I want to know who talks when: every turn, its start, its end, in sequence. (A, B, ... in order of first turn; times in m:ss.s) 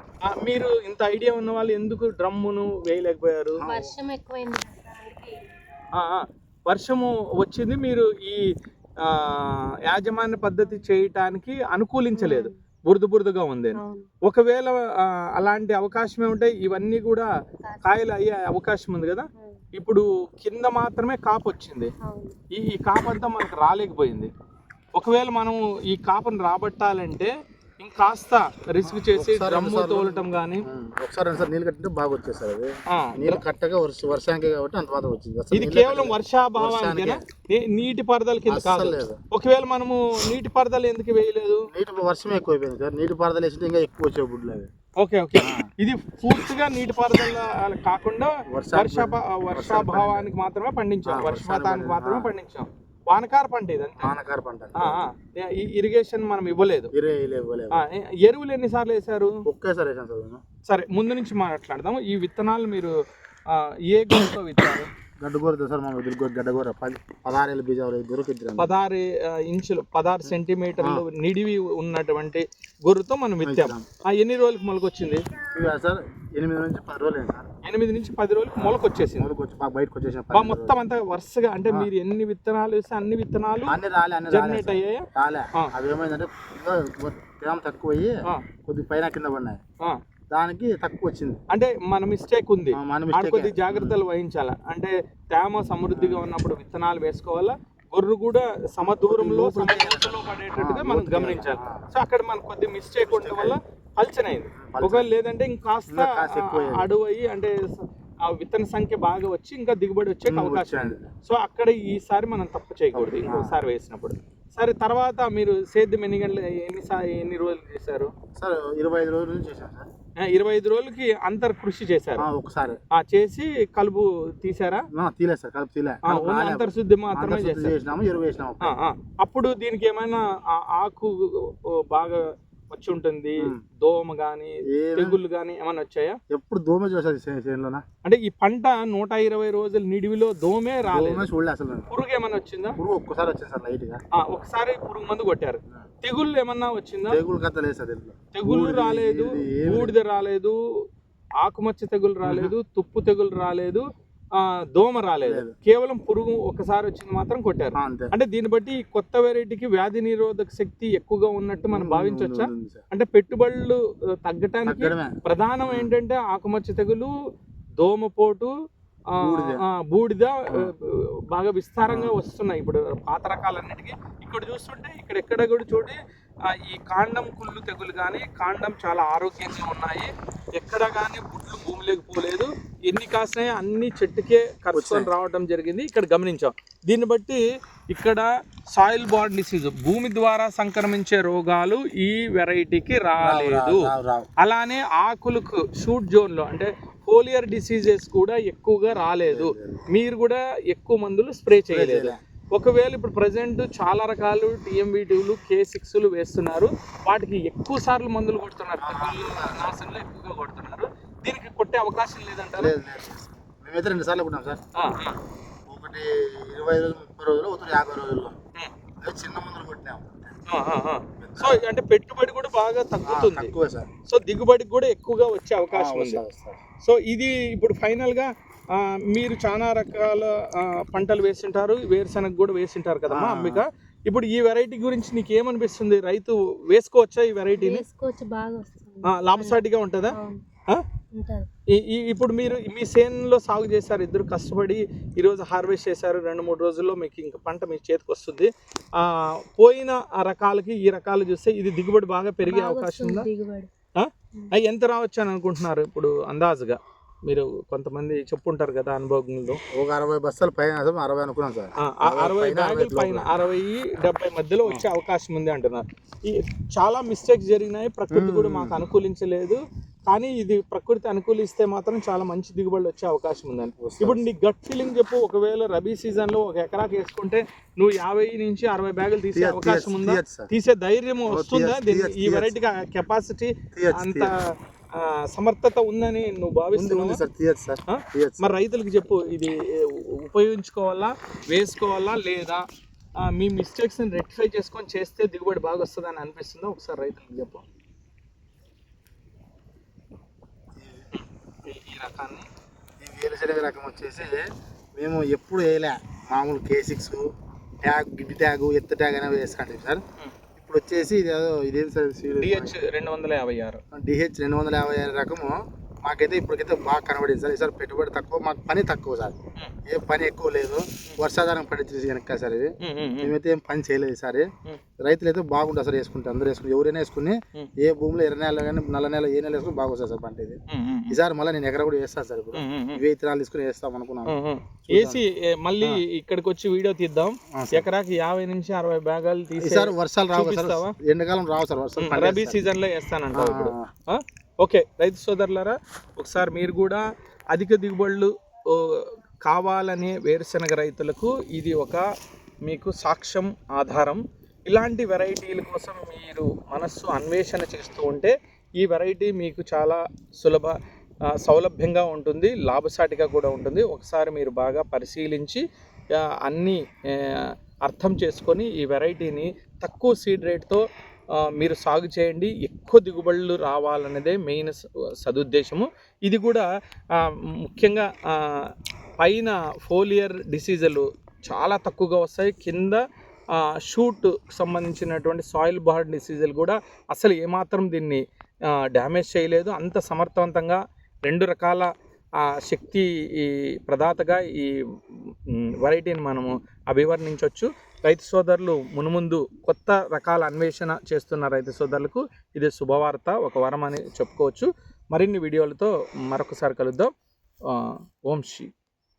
0:00.2-0:03.7 A
0:03.6-0:04.0 B
0:03.6-0:05.5 C
0:05.9-0:08.4 A
0:09.0-0:17.3 A
0:12.2-0:12.5 C
0:13.7-0:14.1 C
0:17.6-0:18.1 C
0:17.8-0:21.9 A
0:19.4-0:19.6 C
0:22.0-0:22.4 C
0:22.5-0:24.3 A
0:24.9-0:30.6 A
0:28.8-0:37.2 B
0:32.9-0:33.4 A
0:35.5-0:41.7 A
0:38.5-0:39.2 B
0:41.7-0:44.7 B
0:45.0-0:54.1 A
0:45.4-0:45.7 B
0:48.5-0:50.3 B
0:51.1-0:52.3 B
0:54.0-0:55.0 B
0:54.8-0:56.9 A
0:56.9-0:57.8 B
0:57.7-0:59.4 A
0:59.4-1:00.4 B
1:00.6-1:02.9 A
1:03.5-1:04.9 A
1:05.2-1:08.7 B
1:08.6-1:15.2 A
1:10.2-1:11.0 B
1:13.4-1:13.8 B
1:15.5-1:17.5 B
1:17.6-1:19.3 A
1:18.5-1:20.8 B
1:20.3-1:23.8 A
1:23.6-1:29.6 B
1:24.3-1:25.7 A
1:30.3-1:31.4 B
1:31.5-1:47.6 A
1:32.7-1:34.0 B
1:35.9-1:36.3 B
1:39.0-1:41.8 B
1:43.0-1:43.6 B
1:44.6-1:45.2 B
1:45.9-1:46.9 B
1:48.2-1:58.1 A
1:50.2-1:51.1 B
1:52.9-1:53.6 B
1:58.4-1:59.9 B
2:00.2-2:02.3 A
2:02.2-2:02.8 B
2:02.9-2:04.9 A
2:04.9-2:08.7 B
2:06.0-2:07.7 A
2:08.6-2:16.2 A
2:14.7-2:15.2 B
2:16.3-2:17.8 B
2:18.0-2:21.2 A
2:20.9-2:21.9 B
2:21.9-2:22.8 A
2:22.8-2:24.0 B
2:24.1-2:27.2 A
2:27.1-2:30.0 B
2:28.3-2:30.6 A
2:31.4-2:47.1 A
2:32.2-2:32.5 B
2:35.2-2:35.5 B
2:37.8-2:38.1 B
2:41.7-2:42.8 B
2:44.6-2:45.2 B
2:45.7-2:45.9 B
2:47.8-2:48.5 A
2:49.1-3:32.8 A
2:49.2-2:49.6 B
2:51.9-2:52.2 B
3:04.7-3:05.1 B
3:13.2-3:14.3 B
3:19.0-3:19.8 B
3:21.7-3:22.2 B
3:28.8-3:29.7 B
3:32.6-3:34.6 B
3:34.8-3:35.2 A
3:35.7-3:38.3 B
3:39.0-3:40.4 B
3:40.5-3:43.5 A
3:41.2-3:41.6 B
3:43.0-3:43.9 B
3:44.0-3:46.2 A
3:45.7-3:46.6 B
3:46.8-3:57.8 A
3:53.1-3:53.6 B
3:57.5-4:00.4 C
3:59.0-4:00.2 A
4:01.1-4:01.5 C
4:01.7-4:13.2 A
4:12.4-4:13.7 C
4:14.0-4:19.6 A
4:19.7-4:23.3 B
4:21.8-4:47.2 A
4:28.1-4:28.8 B
4:33.8-4:34.2 B
4:39.3-4:40.5 B
4:41.3-4:42.6 B
4:43.7-4:44.3 B
4:46.7-4:48.5 B
4:47.9-4:52.6 A
4:53.2-4:57.6 A
5:00.8-5:01.1 B
5:01.1-5:02.4 A
5:03.0-5:07.3 B
5:07.8-5:10.0 B
5:10.6-5:12.7 B
5:12.4-5:13.8 A
5:13.9-5:24.5 B
5:22.8-5:23.3 A
5:25.0-5:30.6 B
5:30.7-5:31.2 A
5:31.1-5:34.3 B
5:32.5-5:33.0 A
5:34.2-5:40.9 A
5:34.9-5:35.2 B
5:37.5-5:37.9 B
5:39.6-5:42.6 B
5:42.0-5:52.0 A
5:43.3-5:43.9 B
5:52.6-6:00.8 A
6:01.3-6:05.6 A
6:06.2-6:10.8 A
6:11.4-6:23.0 A
6:23.5-6:34.8 A
6:35.5-6:47.1 A
6:47.7-6:48.7 A